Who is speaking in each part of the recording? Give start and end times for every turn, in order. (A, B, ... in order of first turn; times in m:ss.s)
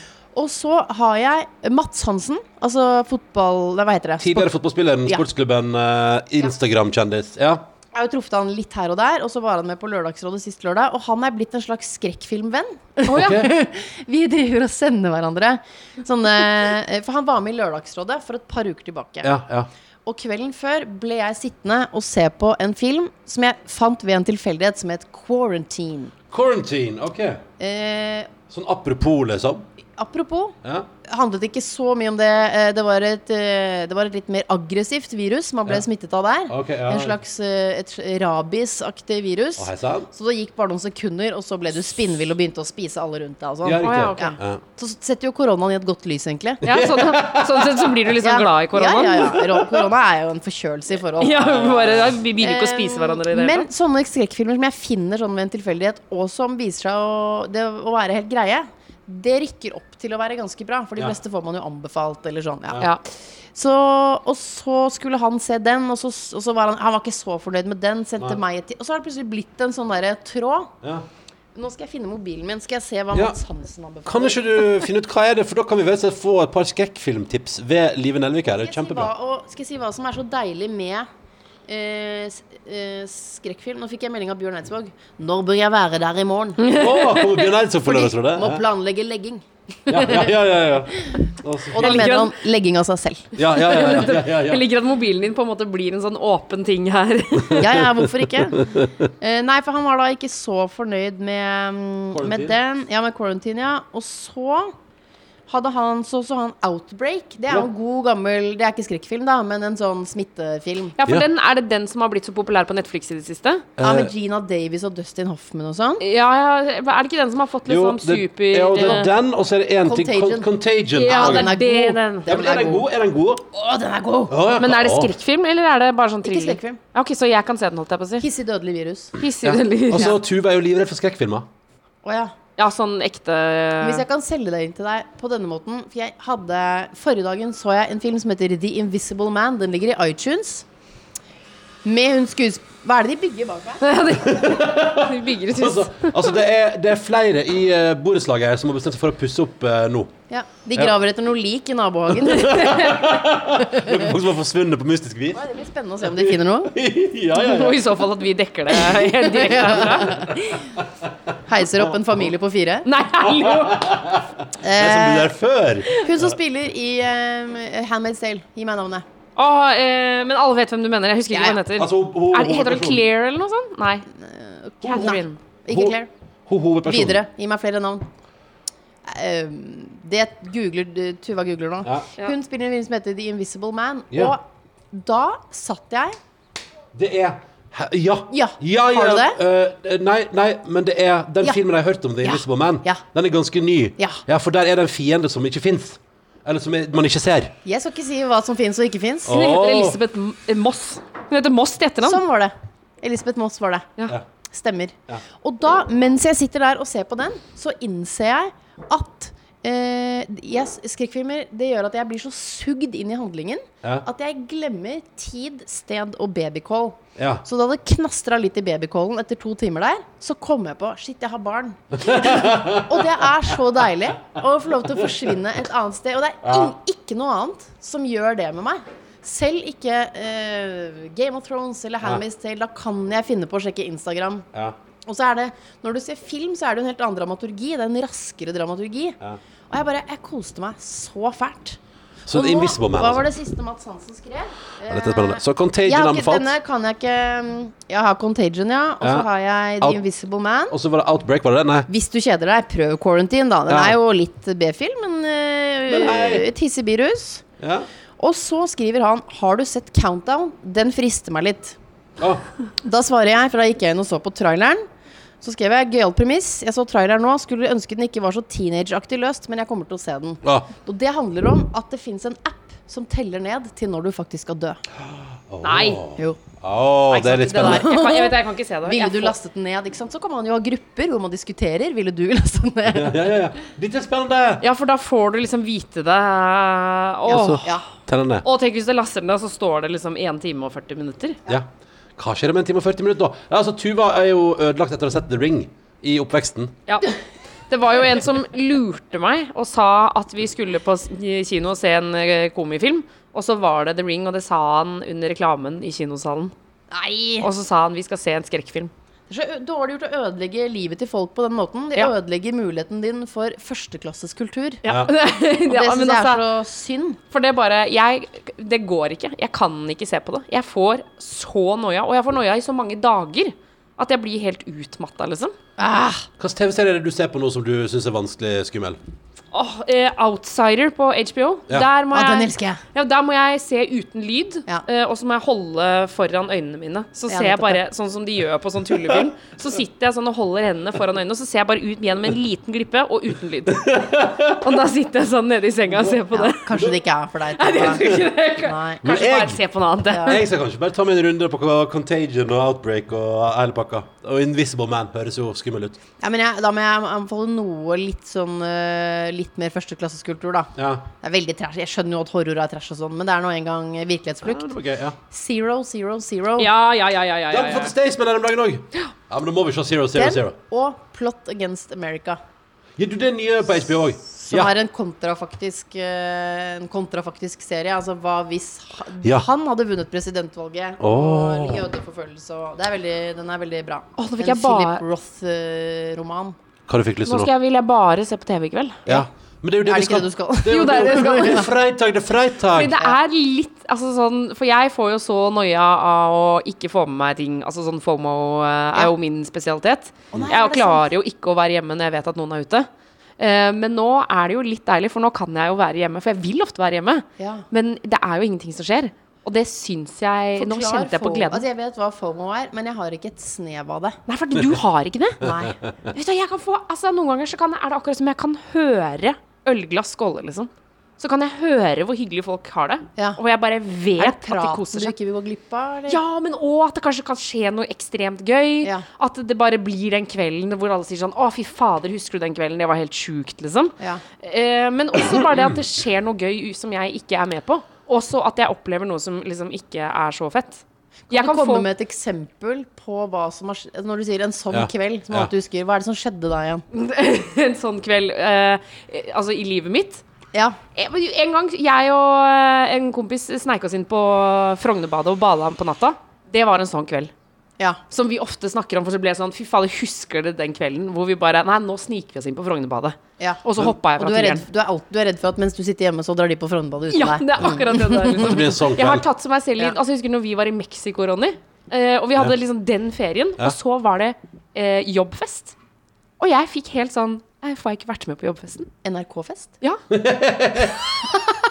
0:00.3-0:04.5 A
0:04.2-0:07.6 B
0:07.9-0:19.3 A
0:13.0-0:13.4 C
0:13.1-0:13.5 B
0:19.2-0:19.7 B
0:20.0-0:26.1 A
0:26.3-0:27.4 B
0:27.6-0:28.3 A
0:28.5-0:29.6 B
0:30.0-0:46.6 A
0:36.5-0:37.2 B
0:39.6-0:40.1 B
0:43.6-0:44.6 B
0:43.8-0:44.4 C
0:46.6-0:49.4 C
0:46.6-0:48.1 B
0:48.2-0:51.4 A
0:49.4-0:49.8 B
0:51.2-0:53.7 C
0:51.2-0:52.2 B
0:52.4-1:02.8 A
1:03.5-1:10.7 A
1:11.5-1:14.8 A
1:13.1-1:13.4 B
1:14.0-1:19.1 B
1:18.5-1:21.1 A
1:21.7-1:26.7 A
1:26.6-1:27.5 C
1:26.7-1:28.6 B
1:27.8-1:30.4 A
1:29.9-1:32.1 B
1:31.7-1:33.3 A
1:31.8-1:32.4 C
1:33.4-1:34.7 B
1:33.4-1:37.8 C
1:37.5-1:38.9 B
1:37.6-1:44.7 A
1:42.1-1:42.6 B
1:45.5-1:50.9 A
1:51.0-1:53.7 C
1:53.8-1:54.1 B
1:53.8-1:56.0 A
1:56.0-1:59.1 C
1:57.7-2:01.6 B
1:58.8-1:59.1 A
1:59.8-2:00.5 A
2:01.0-2:02.3 C
2:01.0-2:02.8 A
2:02.3-2:03.4 B
2:03.5-2:04.4 A
2:04.3-2:05.2 B
2:04.6-2:08.2 C
2:06.2-2:06.8 A
2:08.2-2:09.1 A
2:09.2-2:10.2 C
2:09.4-2:11.5 B
2:12.0-2:12.3 A
2:12.6-2:14.0 C
2:13.8-2:20.6 A
2:21.8-2:23.8 A
2:23.8-2:26.3 C
2:24.2-2:30.1 B
2:30.3-2:32.9 A
2:32.2-2:35.4 B
2:32.3-2:33.1 C
2:33.5-2:34.1 A
2:35.3-2:36.7 A
2:36.0-2:37.8 B
2:37.3-2:40.3 C
2:38.7-2:40.6 A
2:39.9-2:40.2 B
2:40.8-2:41.1 B
2:41.4-2:42.9 A
2:41.7-2:42.2 B
2:42.8-2:43.9 C
2:43.2-2:46.3 B
2:44.6-2:45.3 A
2:46.0-2:49.0 A
2:49.4-2:54.0 C
2:51.3-2:51.6 A
2:51.7-2:53.0 B
2:54.2-2:56.1 A
2:54.8-2:55.4 C
2:54.8-2:55.2 B
2:55.7-2:57.2 B
2:56.8-2:58.0 A
2:59.0-3:06.2 A
3:06.9-3:17.6 B
3:08.3-3:09.4 A
3:12.2-3:13.0 A
3:17.6-3:19.3 A
3:19.2-3:20.0 B
3:19.3-3:22.2 C
3:22.0-3:23.9 A
3:24.5-3:54.4 A
3:37.2-3:37.4 B
3:42.0-3:43.1 B
3:46.4-3:46.7 B
3:55.0-3:59.2 A
3:59.7-4:01.8 A
4:02.3-4:03.3 B
4:02.3-4:10.8 A
4:04.9-4:06.5 B
4:09.0-4:09.3 B
4:10.7-4:11.9 B
4:11.9-4:17.4 A
4:13.7-4:14.0 B
4:15.9-4:16.5 B
4:17.6-4:17.9 B
4:18.2-4:21.8 A
4:22.8-4:24.8 A
4:25.4-4:34.8 A
4:30.4-4:30.7 B
4:35.0-4:37.9 B
4:35.6-4:36.0 C
4:37.1-4:43.3 A
4:37.5-4:39.4 C
4:42.9-4:44.6 B
4:44.6-4:47.7 C
4:47.3-4:48.4 B
4:48.4-4:51.4 C
4:51.5-4:56.8 B
4:57.7-5:06.5 C
5:06.9-5:07.5 A
5:07.4-5:08.9 C
5:09.3-5:14.8 A
5:14.8-5:16.4 C
5:15.6-5:17.2 A
5:17.3-5:25.5 C
5:25.8-5:26.3 A
5:26.4-5:29.0 B
5:29.5-5:46.8 C
5:32.1-5:32.8 A
5:37.3-5:37.8 A
5:43.7-5:44.8 B
5:45.9-5:47.0 B
5:46.3-5:49.0 A
5:47.6-5:50.4 C
5:49.0-5:49.6 B
5:50.1-5:50.4 A
5:50.2-5:56.0 B
5:56.2-6:04.7 A
6:00.8-6:01.1 B
6:04.4-6:05.2 B
6:05.3-6:06.7 A
6:06.6-6:07.9 C
6:07.5-6:10.6 B
6:10.1-6:12.4 A
6:13.0-6:14.7 B
6:14.3-6:26.6 A
6:19.2-6:19.5 B
6:21.0-6:21.8 B
6:24.2-6:25.0 C
6:26.9-6:27.5 B
6:27.2-6:29.0 C
6:29.0-6:33.0 B
6:29.8-6:31.7 A
6:30.7-6:31.7 C
6:32.7-6:42.9 C
6:40.4-6:41.1 A
6:43.4-6:51.6 C
6:47.4-6:47.6 A
6:50.6-6:54.2 A
6:54.3-6:55.5 C
6:55.4-6:55.7 B
6:55.4-6:55.8 A
6:56.1-7:05.1 C
7:04.2-7:06.2 A
7:06.1-7:21.9 C
7:15.3-7:15.7 B
7:21.3-7:26.8 A
7:24.7-7:25.5 B
7:26.9-7:30.2 C
7:30.9-7:37.3 C
7:38.1-7:44.6 C
7:44.2-7:48.6 A
7:47.1-7:55.7 C
7:48.4-7:49.2 B
7:56.4-7:58.9 C
7:59.0-7:59.7 A
8:00.1-8:01.0 B
8:01.3-8:01.5 A